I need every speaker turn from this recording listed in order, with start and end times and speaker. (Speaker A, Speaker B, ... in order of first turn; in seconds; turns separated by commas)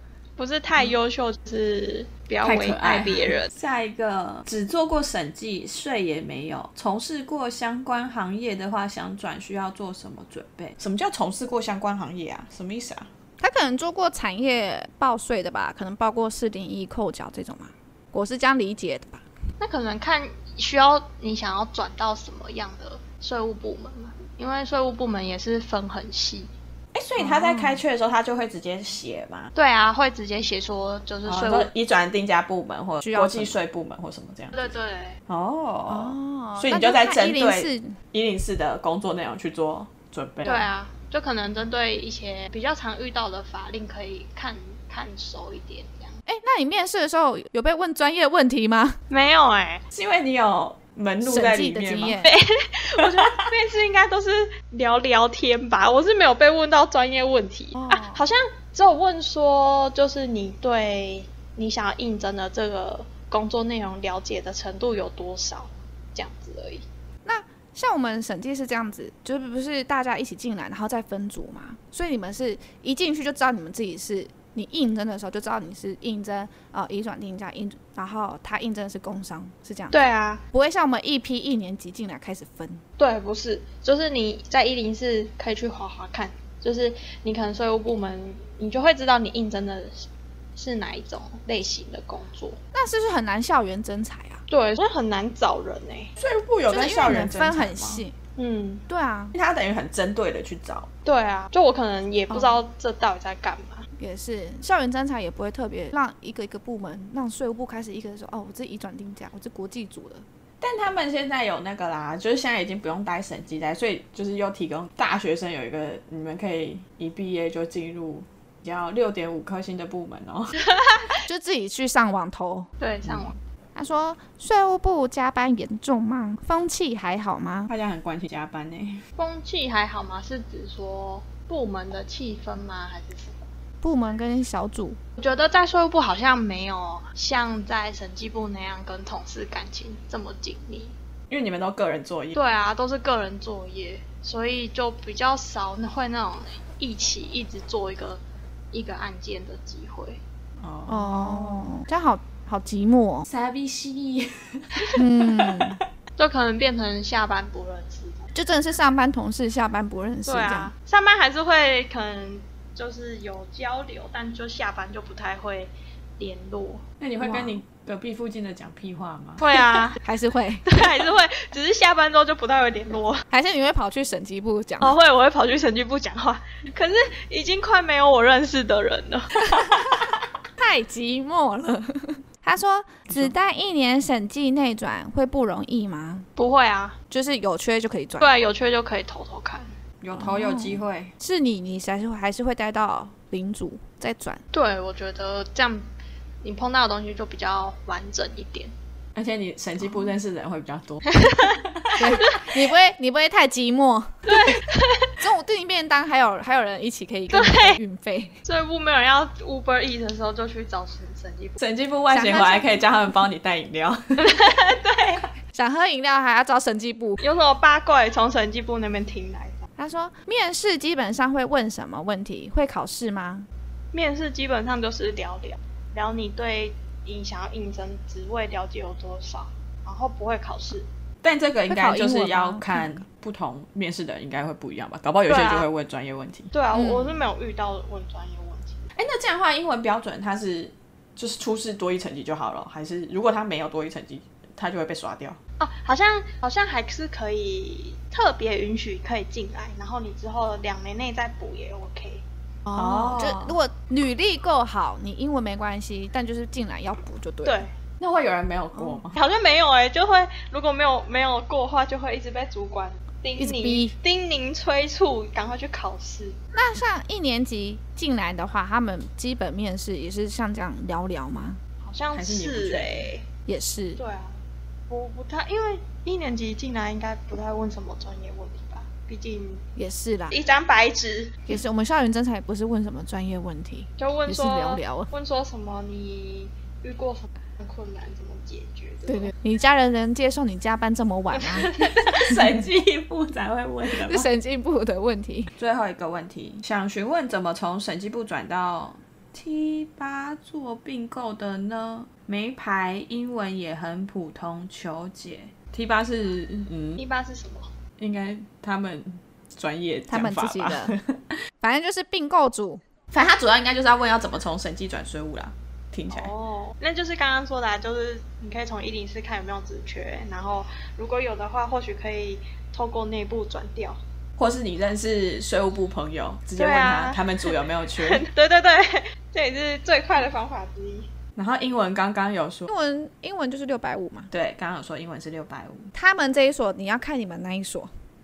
Speaker A: 0.4-3.5, Speaker B: 2.4-13.1, Speaker C: 13.4-19.2, Speaker A: 19.6-26.5, Speaker B: 26.9-29.5, Speaker C: 27.2-27.8, Speaker A: 29.6-31.7, Speaker B: 31.3-34.7, Speaker C: 33.0-33.6, Speaker A: 34.5-35.2, Speaker B: 35.3-40.7, Speaker C: 35.9-38.0, Speaker A: 40.4-46.2, Speaker C: 46.3-49.0, Speaker A: 49.1-49.8, Speaker B: 49.9-52.2, Speaker C: 51.2-52.3, Speaker A: 52.2-66.9, Speaker B: 53.0-53.5, Speaker C: 57.8-58.2, Speaker C: 67.2-80.0, Speaker A: 79.9-80.4, Speaker C: 80.5-82.8, Speaker A: 83.0-92.6, Speaker C: 92.7-94.4, Speaker A: 94.5-96.1, Speaker B: 96.2-98.0, Speaker C: 96.7-98.2, Speaker A: 98.4-98.8, Speaker C: 98.9-99.3, Speaker B: 99.3-100.9, Speaker A: 101.0-103.9, Speaker C: 102.3-102.6, Speaker C: 104.0-110.2, Speaker B: 110.6-120.6, Speaker A: 120.6-121.2, Speaker C: 121.2-122.7, Speaker A: 122.8-123.4, Speaker C: 123.8-127.7, Speaker B: 127.7-129.0, Speaker A: 129.2-133.4, Speaker C: 133.8-135.0, Speaker A: 135.2-140.9, Speaker B: 141.3-142.4, Speaker A: 142.3-148.2, Speaker A: 148.7-150.2, Speaker B: 150.6-151.8, Speaker C: 150.9-153.3, Speaker B: 153.3-155.8, Speaker C: 155.0-155.8, Speaker A: 156.2-158.3, Speaker C: 158.3-160.7, Speaker A: 160.3-166.8, Speaker B: 167.0-169.5, Speaker C: 167.2-167.6, Speaker A: 169.4-170.0, Speaker C: 170.0-170.7, Speaker A: 170.7-173.2, Speaker C: 173.3-175.0, Speaker A: 174.8-179.9, Speaker C: 180.6-186.3, Speaker A: 186.4-187.0, Speaker C: 187.1-188.3, Speaker A: 188.2-189.7, Speaker B: 190.0-191.1, Speaker C: 190.2-194.4, Speaker A: 194.5-195.9, Speaker A: 196.4-198.7, Speaker B: 199.2-202.0, Speaker C: 202.0-204.6, Speaker A: 202.2-202.5, Speaker A: 204.3-205.2, Speaker C: 205.2-208.4, Speaker A: 207.3-207.8, Speaker A: 208.4-211.6, Speaker B: 211.6-214.4, Speaker C: 212.1-212.8, Speaker A: 214.2-215.2, Speaker C: 215.5-217.2, Speaker A: 217.2-219.6, Speaker C: 219.8-223.5, Speaker A: 223.9-230.9, Speaker B: 231.2-236.5, Speaker C: 231.7-233.0, Speaker A: 235.3-235.7, Speaker A: 236.5-238.9, Speaker C: 236.7-237.2, Speaker B: 238.9-245.4, Speaker A: 245.6-252.2, Speaker B: 252.7-253.6, Speaker C: 252.8-257.6, Speaker A: 257.4-257.7, Speaker B: 258.0-259.2, Speaker C: 258.8-259.0, Speaker A: 259.1-266.4, Speaker C: 263.4-263.9, Speaker C: 266.5-271.6, Speaker A: 271.8-273.2, Speaker B: 272.1-273.1, Speaker C: 273.5-274.0, Speaker A: 274.0-279.6, Speaker C: 279.8-280.4, Speaker A: 280.3-281.5, Speaker C: 281.5-285.1, Speaker A: 284.0-289.3, Speaker C: 289.1-291.7, Speaker A: 291.3-292.3, Speaker B: 291.9-294.3, Speaker C: 293.9-295.5, Speaker B: 295.6-307.0, Speaker A: 307.0-307.7, Speaker B: 308.0-311.2, Speaker C: 310.1-310.9, Speaker C: 311.6-312.8, Speaker B: 313.1-316.3, Speaker A: 316.1-324.0, Speaker B: 324.4-328.3, Speaker A: 326.6-331.1, Speaker B: 331.4-332.7, Speaker C: 332.7-334.3, Speaker B: 334.3-335.9, Speaker C: 335.9-337.9